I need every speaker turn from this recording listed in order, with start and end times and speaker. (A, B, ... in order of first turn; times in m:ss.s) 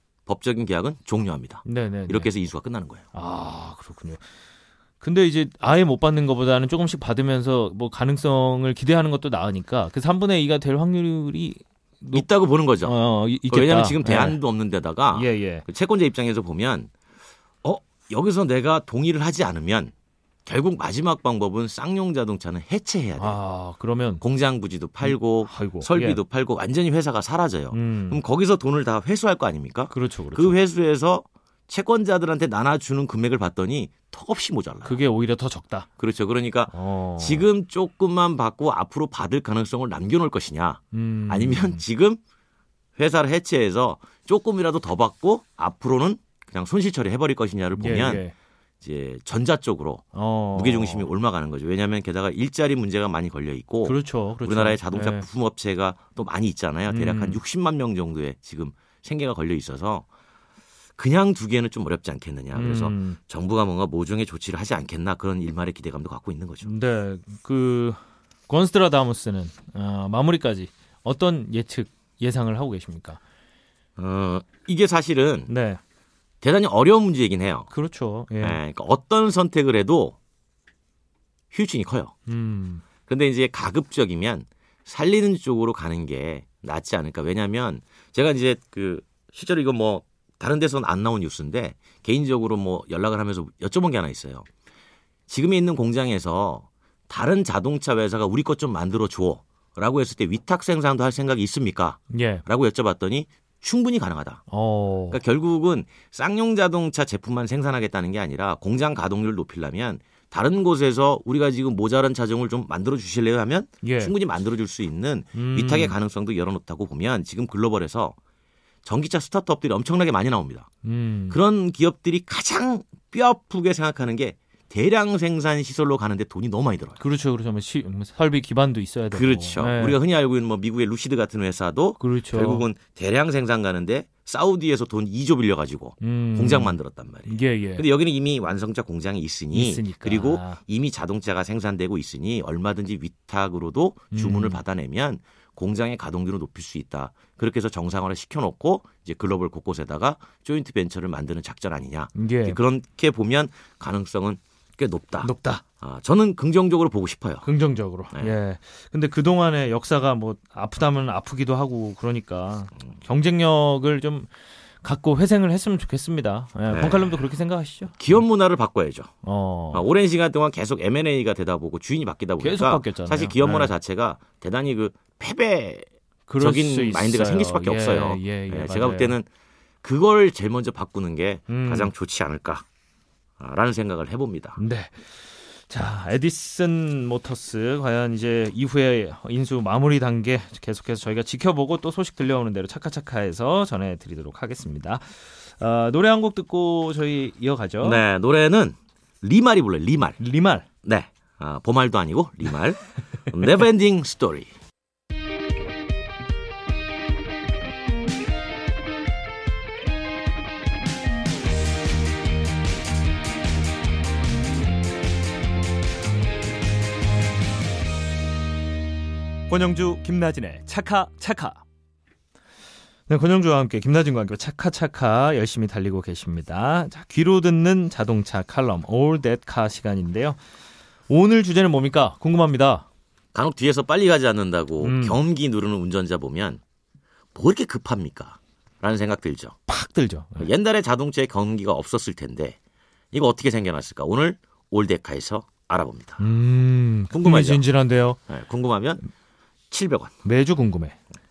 0:00.3-0:03.0 A
0:01.6-0:02.3 B
0:03.1-0:04.2 B
0:05.0-0:12.3 B
0:12.1-0:16.9 A
0:12.8-0:14.4 B
0:15.1-0:15.7 B
0:17.6-0:19.9 A
0:20.5-0:23.4 A
0:23.2-0:24.2 B
0:24.2-0:35.0 A
0:25.0-0:26.2 B
0:27.7-0:28.2 B
0:29.9-0:30.6 B
0:34.8-0:35.9 B
0:36.0-0:42.2 A
0:36.7-0:37.5 B
0:40.9-0:41.8 B
0:43.0-0:48.2 A
0:47.8-0:48.3 B
0:48.8-1:00.1 A
0:50.1-0:51.1 B
0:53.8-0:55.3 B
0:56.9-0:57.4 B
1:01.0-1:06.7 A
1:02.5-1:03.2 B
1:06.6-1:13.2 B
1:14.0-1:15.5 A
1:15.5-1:15.8 B
1:16.4-1:17.7 A
1:17.7-1:18.6 B
1:18.4-1:20.2 A
1:21.5-1:22.1 A
1:22.3-1:22.8 B
1:23.1-1:34.5 A
1:35.3-1:44.4 A
1:42.1-1:42.4 B
1:44.5-1:45.2 B
1:45.1-1:58.2 A
1:53.8-1:54.1 B
1:55.3-1:56.0 B
1:58.8-2:00.7 A
2:00.8-2:01.4 B
2:01.3-2:07.0 A
2:07.0-2:10.0 B
2:09.1-2:37.5 A
2:12.0-2:12.6 B
2:16.0-2:17.9 B
2:19.5-2:20.6 B
2:24.1-2:24.6 B
2:32.2-2:32.6 B
2:35.2-2:35.6 B
2:37.4-2:44.3 B
2:44.8-2:48.0 B
2:46.7-2:47.2 A
2:48.0-2:49.1 A
2:49.2-2:49.8 B
2:49.7-2:55.9 A
2:52.4-2:53.7 B
2:56.3-2:59.2 B
2:56.4-2:59.3 A
2:59.8-3:02.6 A
3:01.5-3:01.9 B
3:03.4-3:04.6 A
3:04.6-3:18.0 B
3:17.8-3:20.2 A
3:20.2-3:20.7 B
3:20.8-3:24.5 A
3:39.5-3:41.6 B
3:43.1-3:50.4 B
3:51.1-3:52.9 B
3:53.3-3:56.6 A
3:54.8-3:55.2 B
3:57.4-3:59.6 A
3:59.7-4:00.5 B
4:00.4-4:02.6 A
4:03.1-4:06.2 A
4:06.2-4:08.2 B
4:07.1-4:07.6 A
4:08.3-4:09.0 A
4:09.7-4:10.1 A
4:10.2-4:11.0 B